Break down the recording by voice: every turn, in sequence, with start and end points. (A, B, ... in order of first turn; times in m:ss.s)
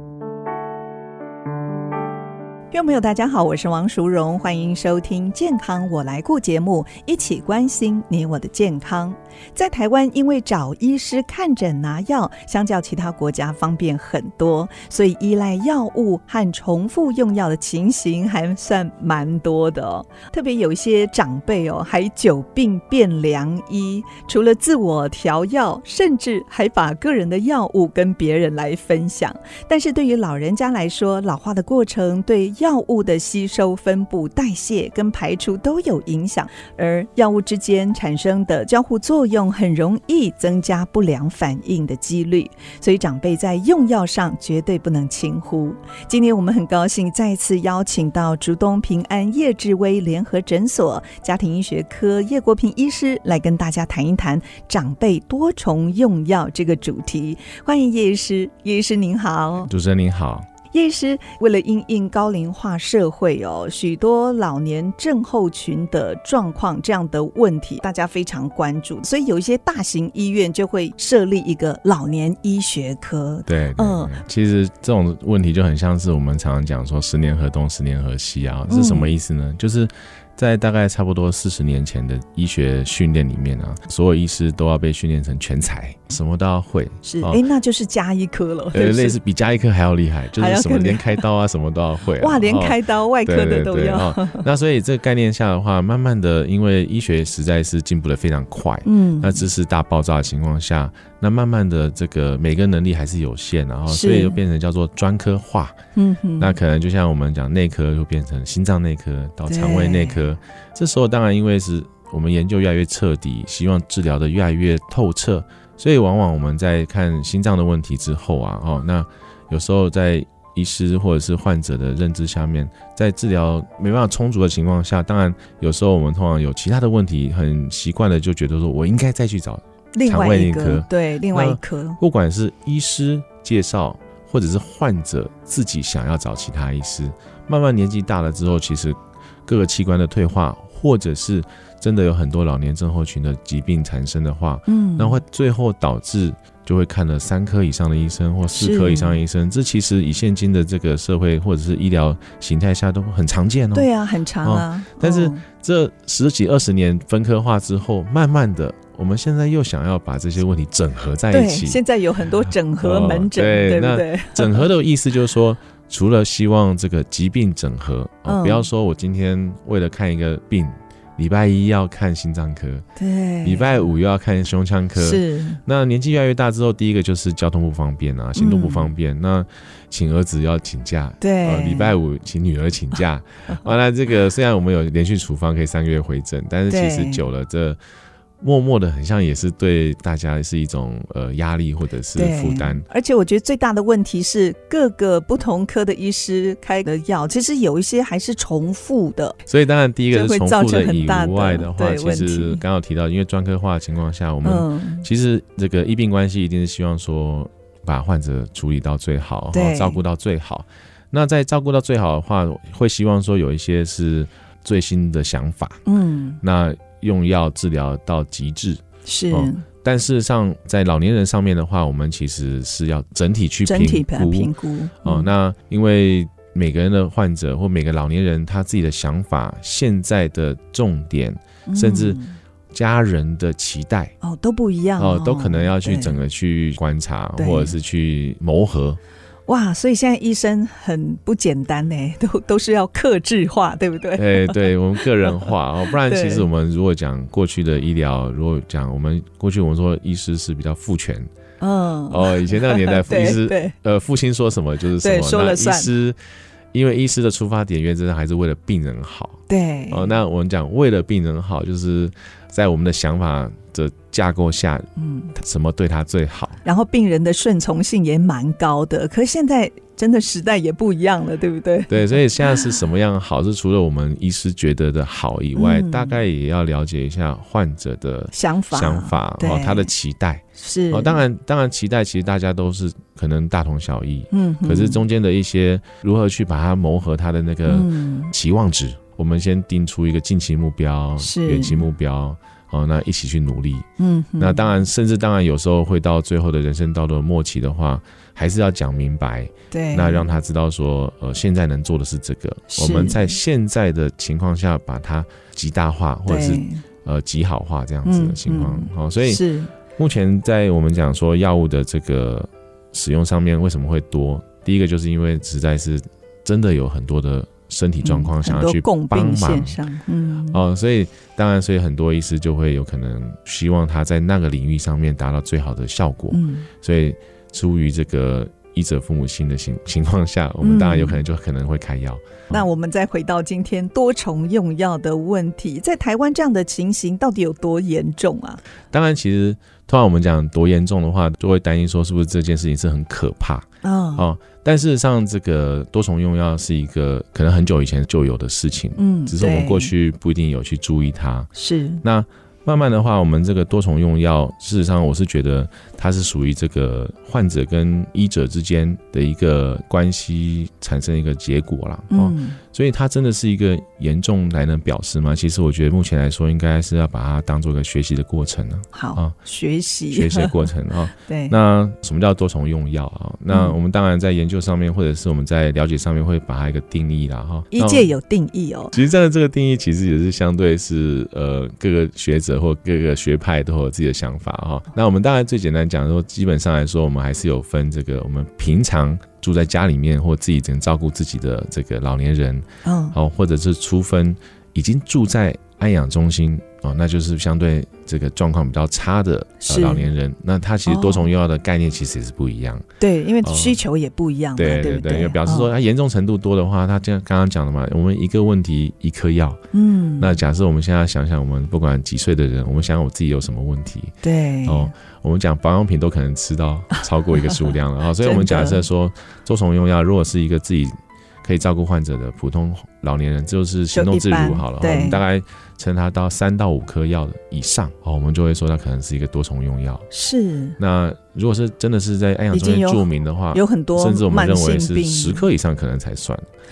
0:02.7-0:59.7 A
0:59.7-1:00.5 B
1:00.7-1:14.2 A
1:13.5-1:27.4 B
1:18.7-1:19.1 A
1:27.0-1:29.2 A
1:28.7-1:45.8 B
1:30.4-1:31.2 A
1:32.2-1:34.5 A
1:38.8-1:39.5 A
1:43.9-1:44.4 A
1:46.0-1:46.5 A
1:46.4-2:33.9 B
1:49.5-1:50.2 A
2:10.0-2:12.0 A
2:24.7-2:25.2 A
2:28.6-2:29.2 A
2:33.7-2:35.4 A
2:34.4-2:41.8 B
2:41.3-2:44.7 A
2:42.8-2:52.9 B
2:48.3-2:48.7 A
2:53.0-2:53.8 A
2:53.4-3:07.8 B
2:55.0-2:55.6 A
2:58.4-2:58.9 A
3:01.2-3:01.9 A
3:06.7-3:07.2 A
3:08.4-3:12.8 B
3:12.1-3:19.4 A
3:19.5-3:35.8 B
3:20.1-3:22.6 A
3:24.4-3:25.1 A
3:29.5-3:30.0 A
3:35.9-3:36.4 A
3:36.4-3:52.2 B
3:39.0-3:39.6 A
3:43.7-3:45.3 A
3:51.7-3:52.4 A
3:52.7-3:54.1 B
3:54.2-3:56.2 A
3:55.0-3:59.0 B
3:57.4-3:57.8 A
3:59.5-4:05.5 A
4:04.2-4:11.3 B
4:06.0-4:06.5 A
4:11.6-4:13.7 A
4:12.1-4:16.2 B
4:15.0-4:15.9 A
4:16.7-4:26.6 B
4:19.5-4:20.1 A
4:25.0-4:25.3 A
4:26.6-4:32.2 A
4:31.9-4:53.9 B
4:35.6-4:36.2 A
4:38.3-4:39.9 A
4:40.6-4:41.2 A
4:44.3-4:45.0 A
4:47.7-4:48.3 A
4:51.2-4:51.8 A
4:54.0-4:54.6 A
4:54.4-5:09.4 B
4:59.7-5:00.3 A
5:02.7-5:03.3 A
5:06.3-5:06.8 A
5:08.0-5:09.7 A
5:10.0-5:19.8 B
5:18.0-5:20.6 A
5:20.5-5:32.6 B
5:26.3-5:26.7 A
5:30.6-5:31.2 A
5:32.5-5:38.6 A
5:38.9-5:51.5 B
5:43.8-5:44.3 A
5:49.0-5:49.9 A
5:51.6-5:52.0 A
5:52.0-6:09.4 B
6:02.1-6:02.6 A
6:08.9-6:11.6 A
6:10.1-6:18.1 B
6:13.5-6:13.8 A
6:17.7-6:19.0 A
6:18.9-6:42.9 B
6:32.8-6:33.2 A
6:39.6-6:40.1 A
6:40.9-6:41.3 A
6:43.0-6:45.7 A
6:43.4-6:43.8 B
6:44.6-6:49.6 B
6:49.7-6:50.4 A
6:50.2-7:10.1 B
6:54.2-6:54.9 A
6:57.0-6:58.8 A
7:03.9-7:05.2 A
7:10.1-7:10.8 A
7:10.8-7:16.4 B
7:12.5-7:15.4 A